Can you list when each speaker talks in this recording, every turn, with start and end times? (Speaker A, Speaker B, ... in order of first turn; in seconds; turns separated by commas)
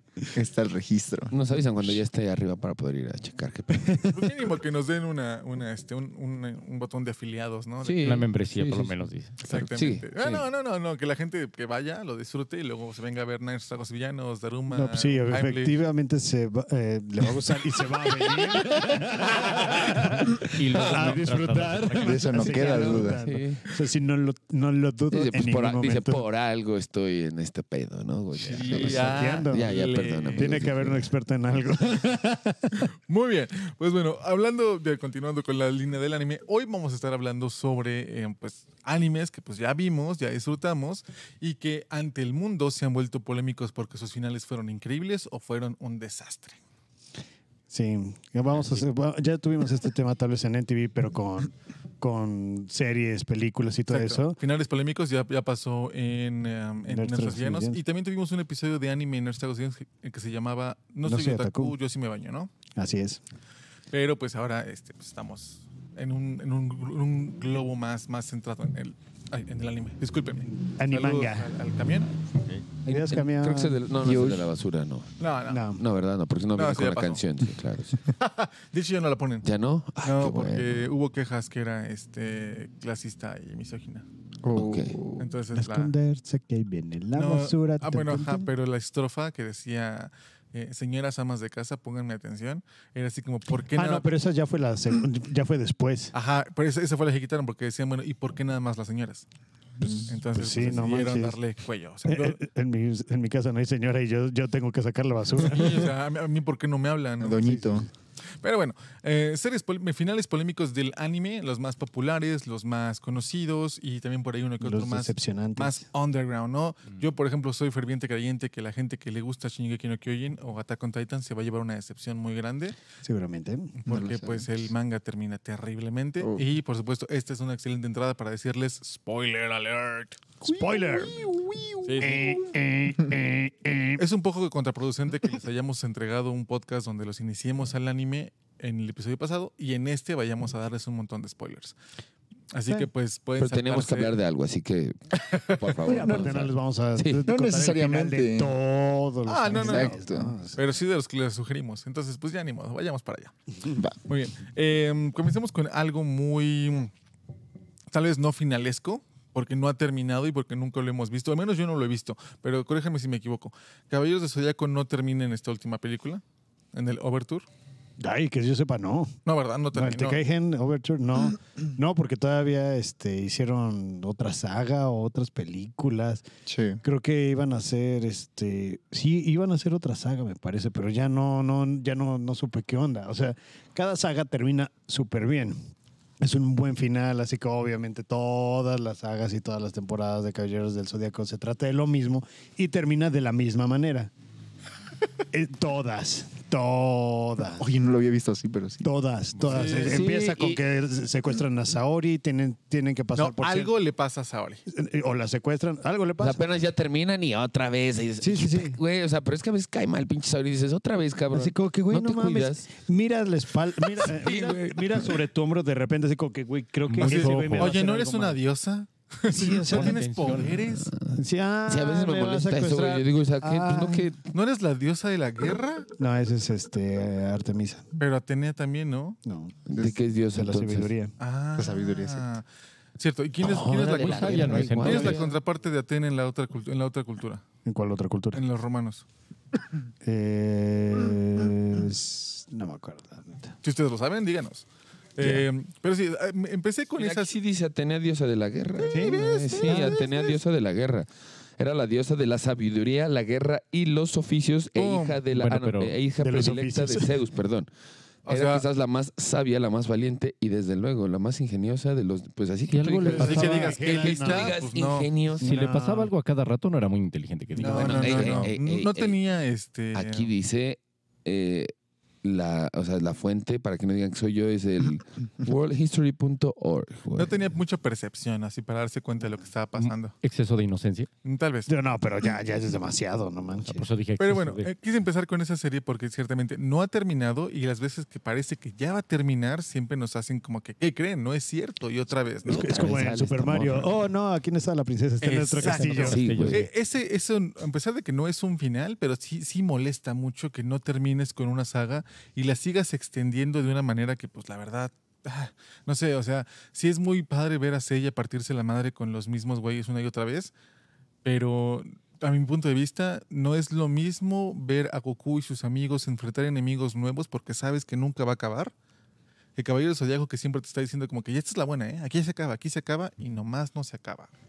Speaker A: 0.3-1.3, Speaker B: 1.3-4.2, Speaker C: 4.0-8.1, Speaker B: 7.8-8.9, Speaker D: 8.0-9.6, Speaker C: 9.4-15.8, Speaker B: 9.6-10.4, Speaker E: 14.7-26.3, Speaker D: 20.5-22.9, Speaker B: 20.8-21.1, Speaker A: 21.9-23.2, Speaker B: 22.7-23.6, Speaker B: 25.1-31.0, Speaker C: 28.3-30.6, Speaker E: 28.7-29.7, Speaker E: 30.3-32.6, Speaker C: 32.8-46.6, Speaker E: 47.7-54.4, Speaker C: 53.9-62.5, Speaker E: 56.9-57.8, Speaker E: 61.0-61.8, Speaker E: 62.8-63.2, Speaker C: 63.9-72.1, Speaker E: 70.5-71.5, Speaker D: 72.4-72.7, Speaker E: 72.8-73.8, Speaker B: 72.8-78.0, Speaker A: 74.0-74.5, Speaker C: 75.2-75.6, Speaker E: 75.5-75.8, Speaker C: 76.5-77.3, Speaker C: 78.1-79.5, Speaker B: 79.4-80.9, Speaker C: 80.0-84.0, Speaker A: 84.4-85.3, Speaker B: 84.5-85.0, Speaker C: 85.2-85.9, Speaker E: 85.5-88.5, Speaker C: 87.1-94.1, Speaker E: 93.7-96.1, Speaker C: 96.1-99.3, Speaker A: 99.8-100.1, Speaker E: 99.8-101.4, Speaker C: 100.1-102.4, Speaker E: 102.0-105.9, Speaker C: 105.4-107.4, Speaker A: 107.2-107.9, Speaker E: 107.4-107.9, Speaker C: 108.4-122.8, Speaker E: 114.6-115.8, Speaker E: 123.0-123.7, Speaker C: 123.8-130.2, Speaker A: 123.9-124.6, Speaker A: 126.2-126.5, Speaker E: 130.4-131.2, Speaker A: 130.6-132.3, Speaker C: 131.8-132.3, Speaker E: 132.0-134.0, Speaker C: 134.0-141.8, Speaker C: 142.5-144.1, Speaker B: 143.4-147.2, Speaker C: 145.3-145.7, Speaker E: 145.8-150.6, Speaker A: 147.2-148.5, Speaker C: 149.2-150.0, Speaker A: 149.5-150.3, Speaker C: 150.5-153.3, Speaker C: 154.1-156.9, Speaker C: 157.9-166.2, Speaker C: 166.7-167.4, Speaker E: 168.0-169.1, Speaker C: 169.2-170.2, Speaker E: 169.7-176.2, Speaker A: 176.4-176.8, Speaker E: 176.8-185.6, Speaker E: 186.2-194.1, Speaker E: 195.3-197.6, Speaker A: 197.6-198.9, Speaker E: 198.8-203.7, Speaker D: 199.4-199.7, Speaker C: 199.4-200.0, Speaker B: 199.7-200.6, Speaker C: 203.1-204.6, Speaker E: 204.7-206.5, Speaker B: 206.2-212.7, Speaker E: 208.2-208.8, Speaker E: 211.3-218.4, Speaker B: 213.8-215.1, Speaker D: 216.9-217.7, Speaker C: 217.0-220.9, Speaker E: 219.3-219.9, Speaker D: 219.6-220.6, Speaker B: 220.6-224.2, Speaker E: 221.1-224.1, Speaker C: 224.3-225.9, Speaker E: 226.0-227.9, Speaker C: 228.0-229.2, Speaker E: 229.2-229.6, Speaker B: 229.7-230.9, Speaker A: 229.7-230.0, Speaker E: 230.3-231.1, Speaker C: 231.2-232.4, Speaker A: 231.5-232.2, Speaker C: 233.0-237.4, Speaker B: 233.4-235.2, Speaker D: 234.1-235.3, Speaker E: 234.9-235.2, Speaker E: 237.6-238.4, Speaker C: 238.3-239.1, Speaker E: 240.0-243.5, Speaker C: 243.6-244.6, Speaker C: 245.2-247.3, Speaker B: 245.2-245.4, Speaker B: 247.0-257.7, Speaker E: 248.9-250.3, Speaker C: 248.9-250.0, Speaker C: 254.7-255.2, Speaker D: 255.3-256.0, Speaker E: 256.1-257.2, Speaker C: 258.2-258.6, Speaker B: 258.3-265.5, Speaker D: 262.7-263.8, Speaker E: 263.0-264.6, Speaker C: 263.1-265.1, Speaker E: 265.4-266.1, Speaker D: 265.4-268.4, Speaker C: 267.6-270.3, Speaker B: 267.6-269.2, Speaker A: 268.1-268.5, Speaker B: 269.9-271.7, Speaker B: 272.2-277.4, Speaker C: 277.1-280.1, Speaker D: 279.8-281.1, Speaker C: 281.2-281.7, Speaker E: 281.6-283.9, Speaker D: 283.7-284.7, Speaker C: 284.2-293.1, Speaker E: 292.4-296.2, Speaker B: 292.5-294.0, Speaker C: 295.2-310.5, Speaker D: 295.6-296.7, Speaker B: 296.1-296.6, Speaker C: 311.2-318.7, Speaker C: 319.6-324.3